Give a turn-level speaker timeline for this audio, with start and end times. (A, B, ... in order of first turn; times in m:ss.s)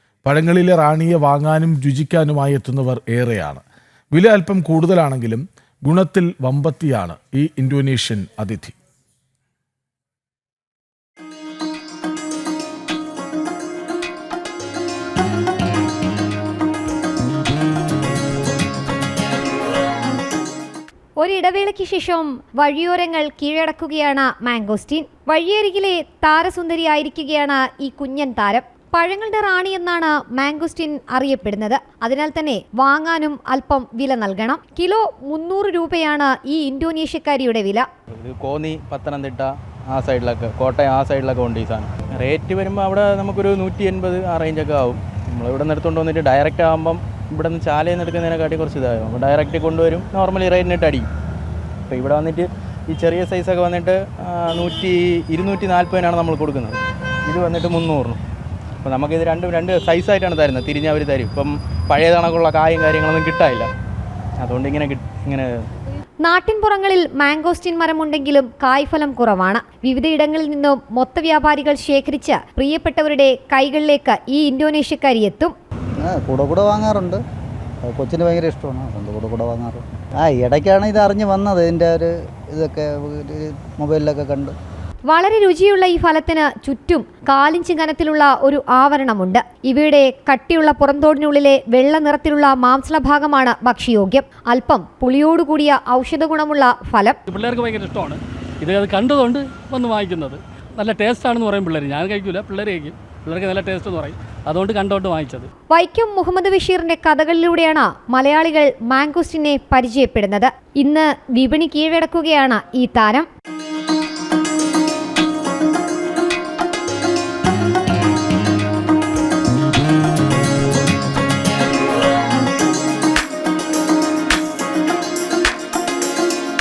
0:00.2-0:03.6 A
0:04.1-0:08.8 A
0:21.2-0:37.9 B
0:38.1-0:51.1 C
0:51.9-0:58.2 C
0:58.8-1:03.7 C
1:04.4-1:05.6 C
1:06.2-1:15.5 B
1:16.0-1:17.2 D
1:17.8-1:24.5 D
1:25.1-1:37.2 B
1:37.3-1:45.5 E
1:45.7-1:53.3 B